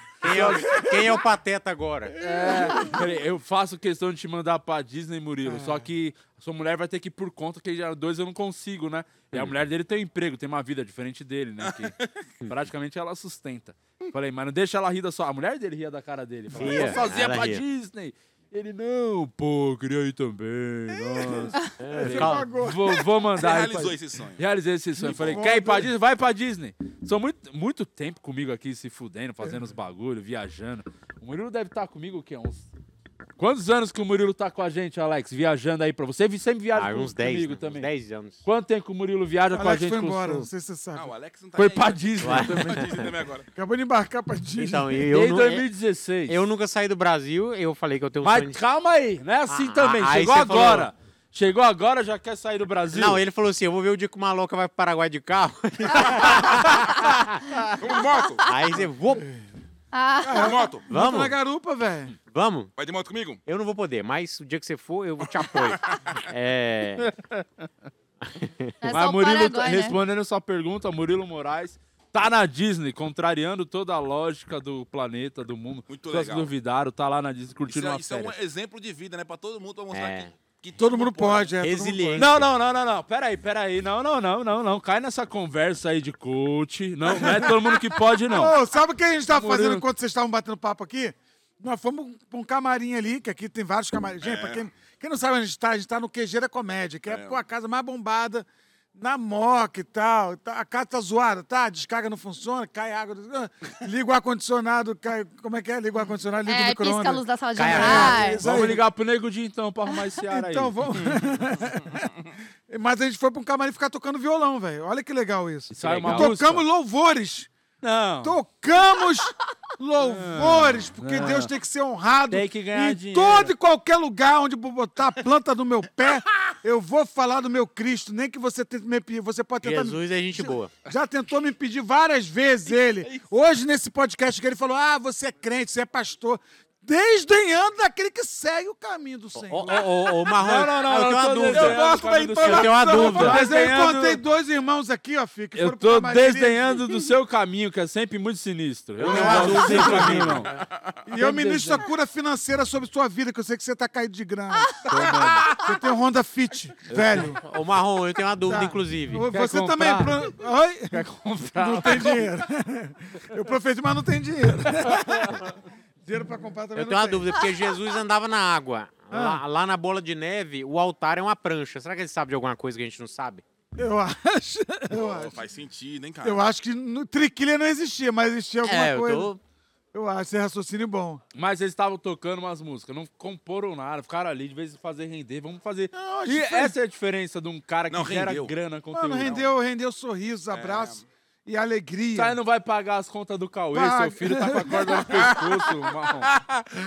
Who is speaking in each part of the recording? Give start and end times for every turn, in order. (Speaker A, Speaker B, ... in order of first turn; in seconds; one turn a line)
Speaker A: 0.2-2.1
Speaker B: 0.2-0.8
Speaker B: 2.2-11.9
Speaker C: 5.5-5.8
Speaker D: 11.6-12.0
Speaker B: 12.4-32.6
Speaker A: 16.5-17.6
Speaker A: 21.8-22.5
Speaker C: 21.9-23.1
Speaker D: 23.4-24.4
Speaker D: 25.0-25.6
Speaker B: 33.4-37.9
Speaker A: 36.7-38.4
Speaker B: 38.4-40.5
Speaker C: 39.5-41.1
Speaker D: 40.9-43.5
Speaker B: 41.5-43.0
Speaker A: 42.2-42.8
Speaker C: 43.5-45.0
Speaker A: 44.6-45.6
Speaker B: 45.1-46.4
Speaker A: 46.2-48.6
Speaker B: 48.2-53.2
Speaker A: 49.5-50.9
Speaker A: 52.9-57.4
Speaker D: 56.0-56.7
Speaker D: 57.8-58.5
Speaker A: 58.5-59.2
Speaker E: 59.9-60.7
Speaker C: 60.2-62.1
Speaker D: 60.3-60.8
Speaker A: 60.9-61.3
Speaker A: 62.2-62.7
Speaker D: 62.8-63.4
Speaker A: 63.5-67.1
Speaker B: 67.0-67.7
Speaker A: 68.2-68.7
Speaker E: 68.8-70.0
Speaker B: 68.9-78.3
Speaker D: 75.9-76.5
Speaker D: 77.7-81.6
Speaker A: 79.9-80.3
Speaker C: 80.8-82.3
Speaker A: 81.6-82.4
Speaker B: 82.2-88.6
Speaker C: 87.1-108.8
Speaker B: 89.3-89.8
Speaker D: 94.2-94.6
Speaker D: 97.1-97.4
Speaker E: 106.4-108.4
Speaker A: 107.5-108.4
Speaker B: 108.4-111.1
Speaker C: 110.2-112.1
Speaker C: 112.7-117.5
Speaker B: 115.7-116.6
Speaker A: 115.8-116.3
Speaker B: 117.8-118.4
Speaker C: 118.2-139.8
Speaker B: 120.0-121.5
Speaker B: 122.3-123.5
Speaker A: 129.6-130.7
Speaker D: 132.7-133.3
Speaker A: 139.3-141.8
Speaker B: 140.2-144.2
Speaker D: 141.5-143.2
Speaker A: 142.4-143.4
Speaker C: 142.8-146.9
Speaker B: 145.5-150.5
Speaker A: 149.0-150.5
Speaker C: 149.0-150.3
Speaker C: 151.0-157.4
Speaker B: 151.2-151.8
Speaker B: 154.9-155.5
Speaker D: 155.1-155.6
Speaker B: 156.9-157.2
Speaker A: 157.4-159.2
Speaker C: 158.4-167.3
Speaker B: 159.3-160.3
Speaker B: 160.9-162.2
Speaker A: 166.7-173.4
Speaker C: 169.1-169.4
Speaker C: 173.8-175.4
Speaker D: 174.9-176.4
Speaker C: 176.2-179.3
Speaker A: 178.6-179.4
Speaker C: 179.9-181.2
Speaker B: 181.3-189.5
Speaker C: 185.9-186.7
Speaker D: 187.9-188.5
Speaker C: 188.9-192.4
Speaker D: 190.5-191.0
Speaker B: 192.1-196.3
Speaker C: 193.7-195.4
Speaker D: 195.1-195.5
Speaker D: 196.2-196.7